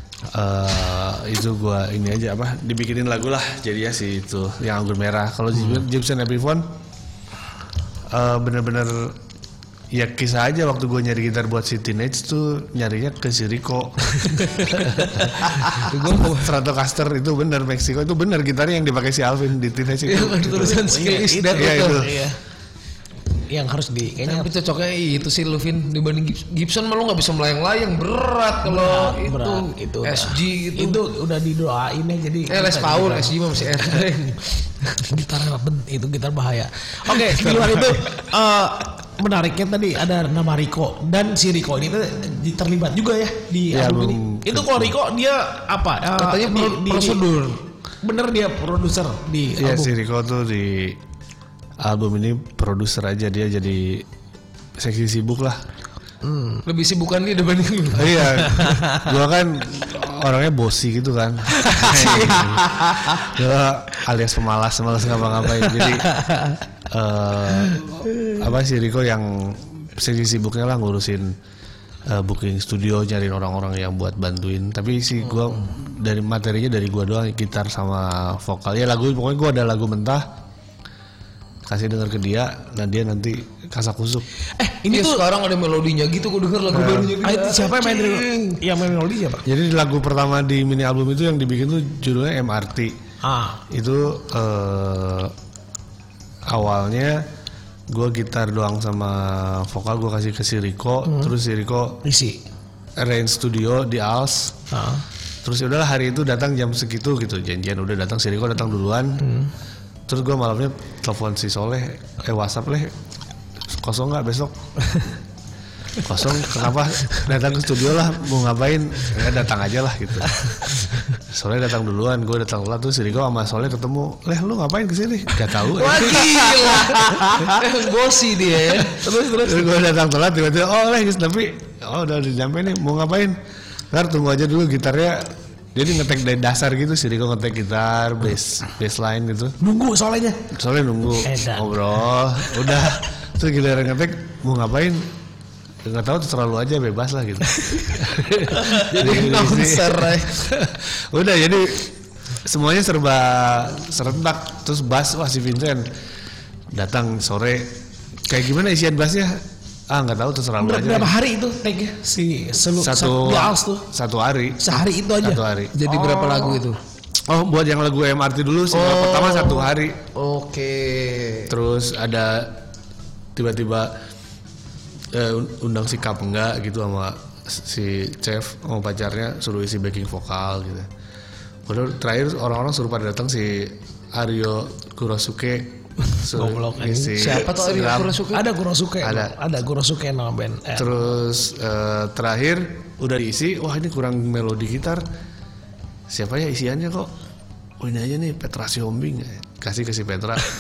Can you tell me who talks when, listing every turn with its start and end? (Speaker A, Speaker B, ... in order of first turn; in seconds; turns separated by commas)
Speaker A: 0.3-6.7, Speaker A: 8.1-9.2, Speaker A: 9.9-20.8, Speaker B: 15.8-16.5, Speaker B: 20.1-22.0, Speaker C: 20.5-22.4, Speaker A: 21.5-22.1, Speaker C: 23.5-24.5, Speaker B: 24.2-31.0, Speaker C: 28.6-34.1, Speaker B: 32.5-34.5, Speaker C: 35.0-47.2, Speaker B: 37.1-38.0, Speaker A: 43.7-45.0, Speaker B: 46.2-47.6, Speaker C: 48.0-49.9, Speaker A: 49.6-51.0, Speaker A: 51.8-54.1, Speaker A: 54.8-55.6, Speaker C: 56.2-56.6, Speaker B: 56.7-58.3, Speaker A: 57.9-66.1, Speaker C: 58.6-59.0, Speaker B: 61.7-63.1, Speaker C: 66.0-66.6, Speaker A: 66.9-71.3, Speaker A: 72.1-80.2, Speaker A: 81.7-84.2, Speaker C: 84.6-85.2, Speaker B: 84.9-88.3, Speaker A: 86.7-87.1, Speaker C: 87.2-89.4, Speaker A: 89.5-92.9, Speaker C: 93.2-93.6, Speaker A: 93.7-95.3, Speaker A: 96.5-97.2, Speaker A: 97.9-102.0, Speaker C: 101.0-101.3, Speaker C: 102.0-102.4, Speaker A: 103.0-104.6, Speaker C: 104.7-105.0, Speaker A: 105.4-109.2, Speaker C: 109.2-109.5, Speaker A: 110.1-112.9, Speaker A: 113.7-114.5, Speaker A: 116.0-120.4, Speaker A: 121.2-126.3, Speaker B: 125.7-129.0, Speaker C: 125.8-127.6, Speaker C: 128.8-129.7, Speaker A: 129.3-133.4, Speaker A: 133.9-139.6, Speaker C: 139.6-140.5, Speaker A: 140.5-145.1, Speaker C: 141.2-141.7, Speaker A: 145.8-151.9, Speaker B: 148.7-150.4, Speaker A: 152.4-155.9, Speaker A: 156.7-157.7, Speaker A: 158.3-159.4, Speaker A: 159.9-161.1, Speaker C: 160.6-163.8, Speaker A: 162.8-165.8, Speaker C: 164.6-166.5, Speaker B: 165.7-166.8, Speaker A: 167.3-170.0, Speaker B: 168.7-171.5, Speaker A: 171.5-172.6, Speaker A: 173.4-173.9, Speaker A: 175.1-180.9, Speaker A: 181.7-188.2, Speaker C: 186.3-187.5, Speaker B: 187.2-188.5, Speaker C: 188.3-190.9, Speaker A: 189.0-189.3, Speaker A: 190.7-195.0, Speaker A: 196.1-197.1, Speaker A: 197.8-200.5